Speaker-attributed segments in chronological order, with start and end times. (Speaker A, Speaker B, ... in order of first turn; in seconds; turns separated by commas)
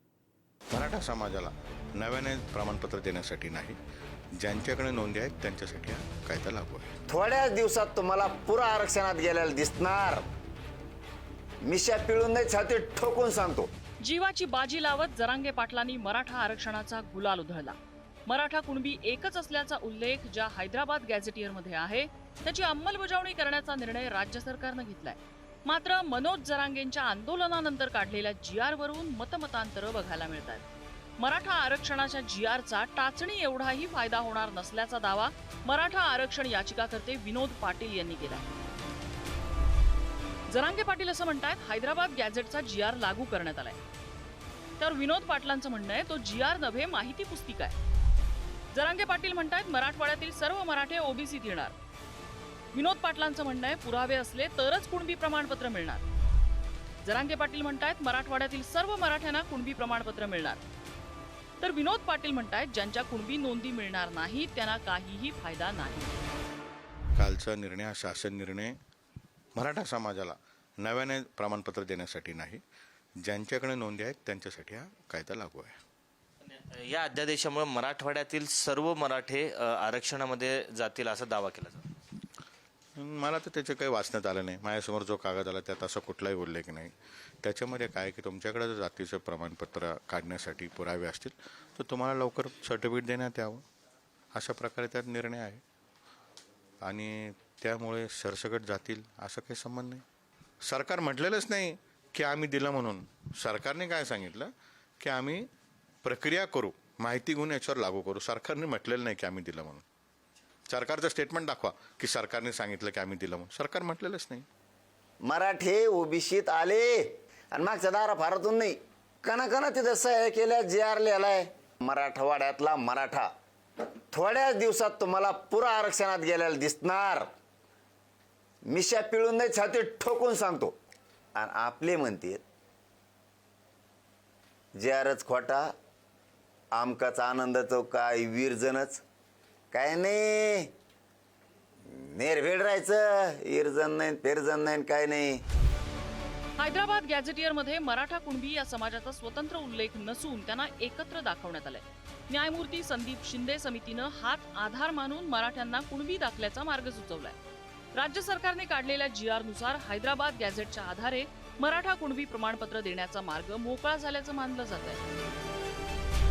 Speaker A: 0.7-3.8, Speaker A: 4.3-7.0, Speaker B: 7.1-10.2, Speaker B: 11.6-13.7, Speaker C: 14.0-17.8, Speaker C: 18.3-30.6, Speaker C: 31.2-38.5, Speaker C: 40.5-43.8, Speaker C: 44.8-47.7, Speaker C: 48.7-51.7, Speaker C: 52.7-56.0, Speaker C: 57.0-60.6, Speaker C: 61.6-66.2, Speaker A: 67.2-68.7, Speaker A: 69.5-72.6, Speaker A: 73.2-75.7, Speaker D: 76.5-81.8, Speaker A: 83.0-93.6, Speaker A: 94.3-95.6, Speaker A: 96.8-100.0, Speaker A: 100.6-105.5, Speaker A: 106.0-109.8, Speaker A: 110.7-114.4, Speaker B: 115.2-123.3, Speaker B: 124.1-127.3, Speaker B: 128.7-130.7, Speaker B: 131.3-132.4, Speaker B: 134.8-135.7, Speaker B: 136.7-139.0, Speaker B: 139.7-140.7, Speaker B: 141.9-145.4, Speaker C: 146.6-157.3, Speaker C: 157.9-165.0